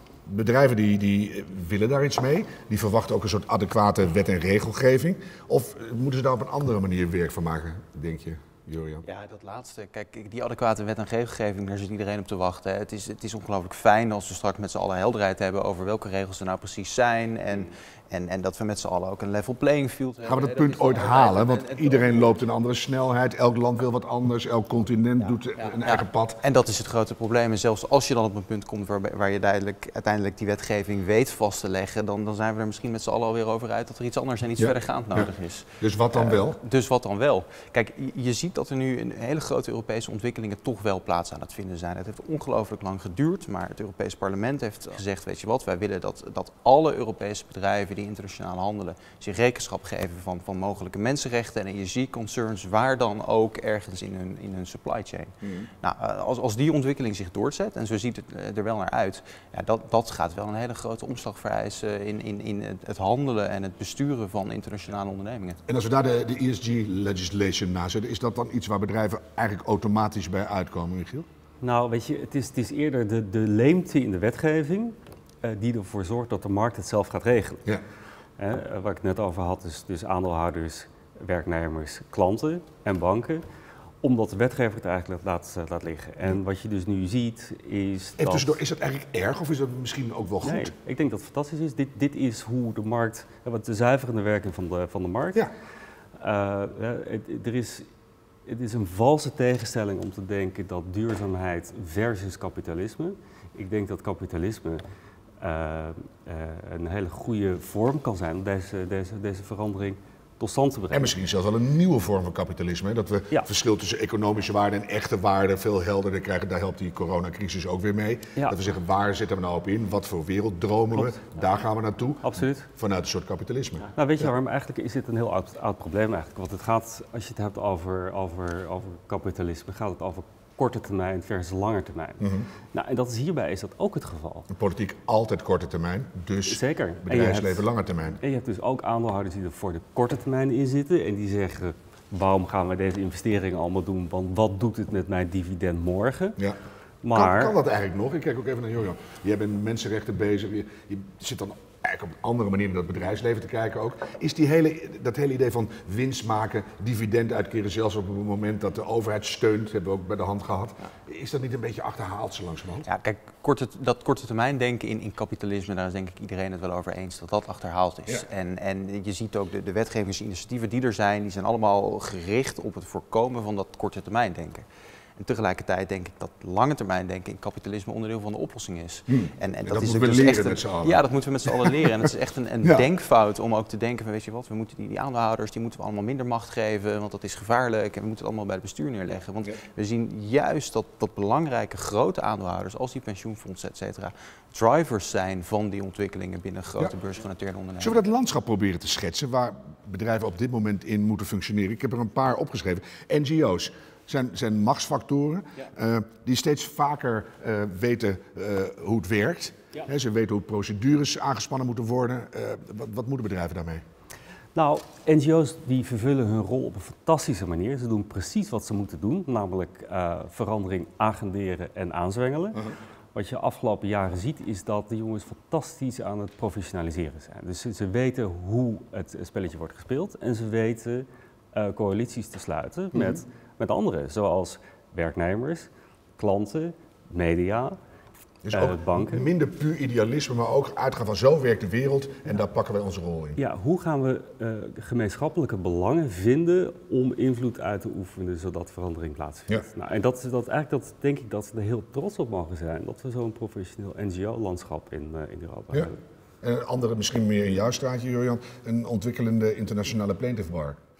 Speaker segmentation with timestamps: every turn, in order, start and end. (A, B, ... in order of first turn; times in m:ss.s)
0:00.2-0:09.0 A
0:09.0-0:22.1 B
0:20.2-0:26.4 A
0:25.7-1:05.6 B
0:34.6-0:35.3 A
0:35.8-0:36.6 A
0:55.4-0:55.7 A
1:05.6-1:11.3 A
1:11.6-1:17.6 C
1:18.4-1:23.4 C
1:24.0-1:28.6 C
1:28.2-1:30.7 A
1:30.4-1:35.5 C
1:36.2-1:37.8 C
1:38.4-1:44.8 C
1:45.4-1:51.2 C
1:50.9-2:04.3 A
2:00.9-2:01.3 C
2:02.2-2:02.7 C
2:03.9-2:14.5 C
2:12.2-2:12.5 A
2:14.5-2:18.2 A
2:16.5-2:17.7 C
2:18.2-2:26.4 C
2:27.0-2:27.6 C
2:27.1-2:42.9 A
2:42.8-3:18.0 B
2:59.1-3:01.9 A
3:17.8-3:33.8 A
3:34.5-3:57.8 C
3:52.9-3:53.2 A
3:58.4-4:03.4 A
3:58.5-3:59.3 C
4:03.4-4:16.0 C
4:16.4-4:20.8 A